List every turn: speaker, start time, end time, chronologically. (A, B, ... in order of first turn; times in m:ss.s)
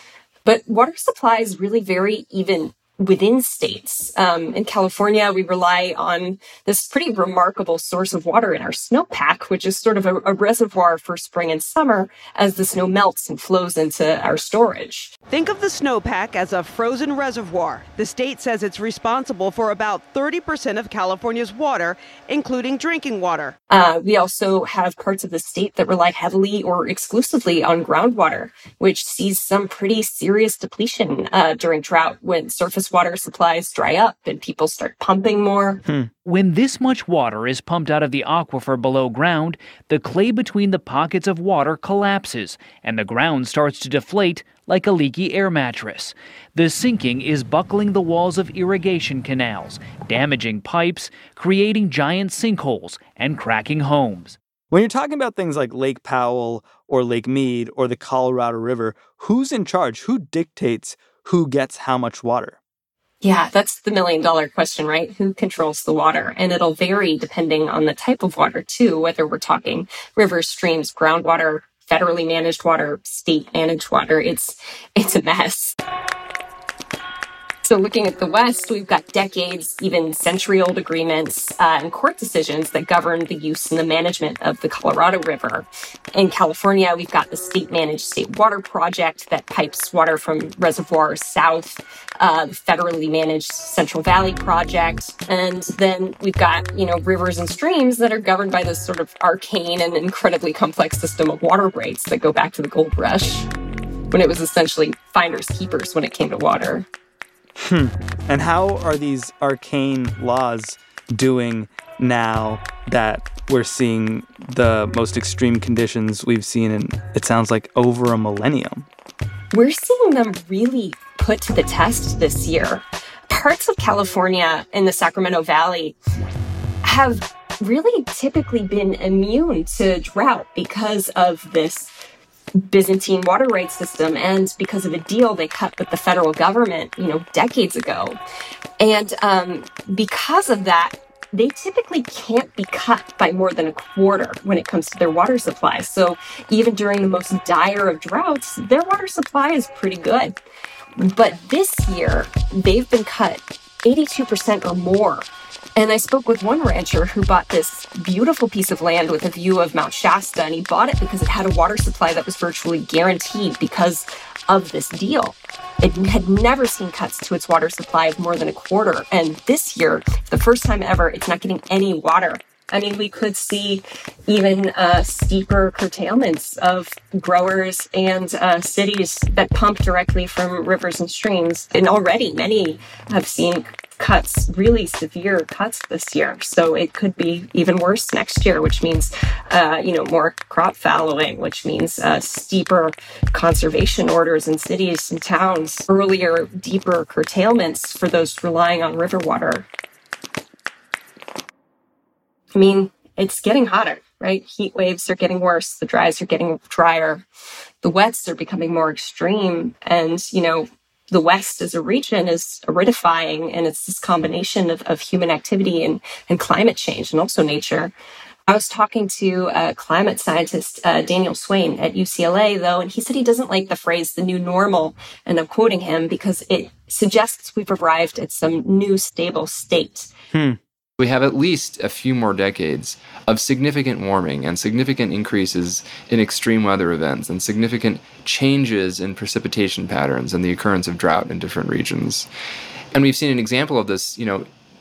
0:00.4-0:15.1 A
0:15.3-0:23.5 B
0:23.7-0:35.8 A
0:36.2-0:54.4 C
0:54.7-1:02.6 D
1:03.2-1:15.8 A
1:17.6-1:43.5 A
1:44.1-1:46.9 A
1:47.6-1:58.9 D
1:59.5-2:06.0 A
2:06.8-2:11.9 A
2:12.6-2:18.2 A
2:18.8-2:30.4 A
2:31.0-3:19.6 A
3:22.5-3:27.2 A
3:27.8-3:37.9 A
3:38.5-3:50.1 A
3:50.3-3:50.6 D
3:51.0-4:02.3 E
4:02.9-4:04.5 E